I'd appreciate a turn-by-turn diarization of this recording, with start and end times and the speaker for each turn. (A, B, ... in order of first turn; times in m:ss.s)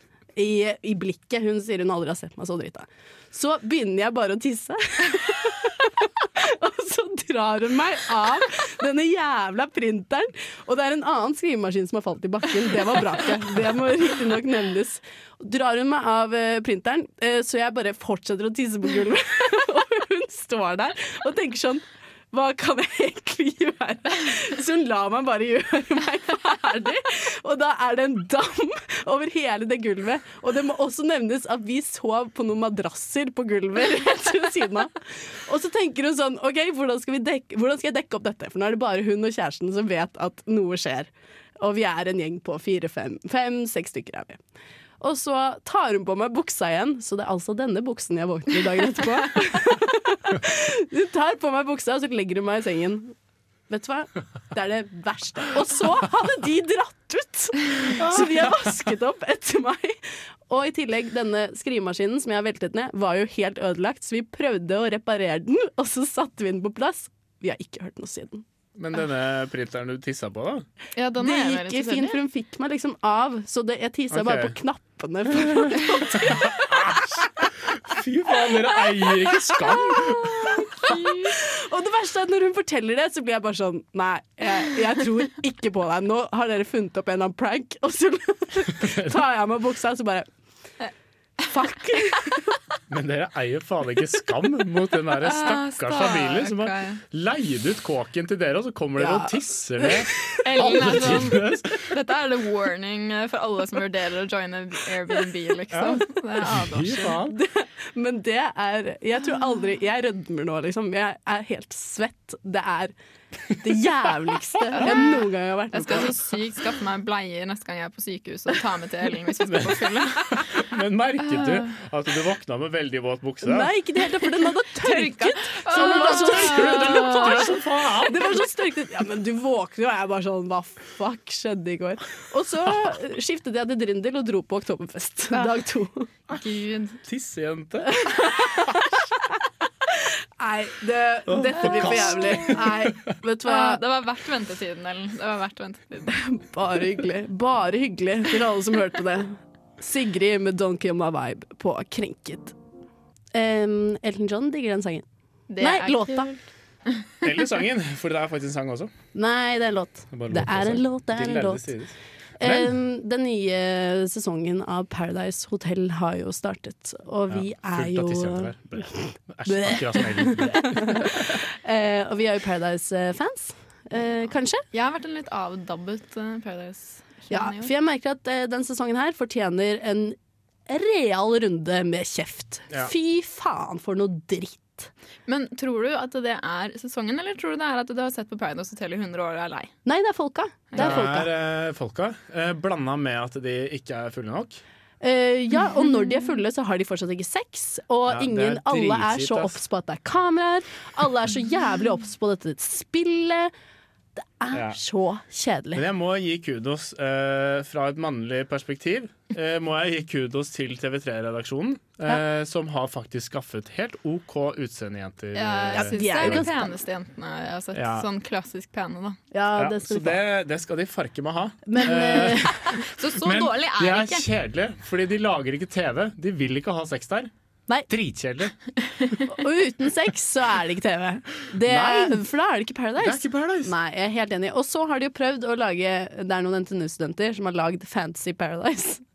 0:00.4-0:44.4 A
0:45.0-0:53.2 A
0:53.7-1:08.4 A
0:58.0-0:58.7 B
1:08.8-1:10.7 B
1:11.0-1:12.2 C
1:11.2-1:17.2 A
1:14.1-1:14.6 B
1:15.4-1:20.7 B
1:19.5-1:30.3 A
1:20.8-1:21.4 C
1:28.8-1:29.1 B
1:31.5-1:32.5 A
1:32.9-1:41.9 B
1:35.2-1:37.0 C
1:39.0-1:41.2 A
1:40.4-1:47.2 C
1:45.7-1:47.4 B
1:47.3-1:52.9 A
1:53.5-1:56.2 A
1:54.7-2:00.7 C
1:59.5-2:03.7 B
2:01.2-2:01.7 C
2:03.4-2:16.1 A
2:04.7-2:07.5 C
2:05.7-2:08.4 B
2:15.3-2:15.6 C
2:16.3-2:17.0 C
2:17.0-2:18.9 B
2:17.9-2:18.7 A
2:20.0-2:23.8 A
2:21.3-2:22.9 B
2:21.7-2:22.3 C
2:23.4-2:26.2 C
2:26.1-2:32.6 A
2:33.3-2:35.1 A
2:35.5-2:37.1 C
2:35.6-2:36.3 A
2:37.2-2:38.9 B
2:39.1-2:41.8 A
2:40.1-2:42.7 B
2:42.4-2:54.6 A
2:47.3-2:51.4 B
2:54.7-2:57.7 C
2:57.3-3:00.2 A
3:00.7-3:04.9 A
3:05.3-3:09.7 C
3:09.8-3:11.3 A
3:10.7-3:11.0 C
3:10.8-3:14.6 B
3:15.0-3:23.5 A
3:18.1-3:19.6 B
3:24.2-3:25.8 A
3:24.5-3:24.8 B
3:25.8-3:36.5 B
3:35.3-3:39.2 C
3:35.7-3:36.7 A
3:37.7-3:38.1 B
3:39.3-3:40.2 A
3:39.6-3:47.3 B
3:41.7-3:42.8 A
3:41.9-3:44.3 C
3:47.9-3:48.6 B
3:49.3-3:59.0 A
3:51.6-3:52.2 B
3:53.0-3:53.7 B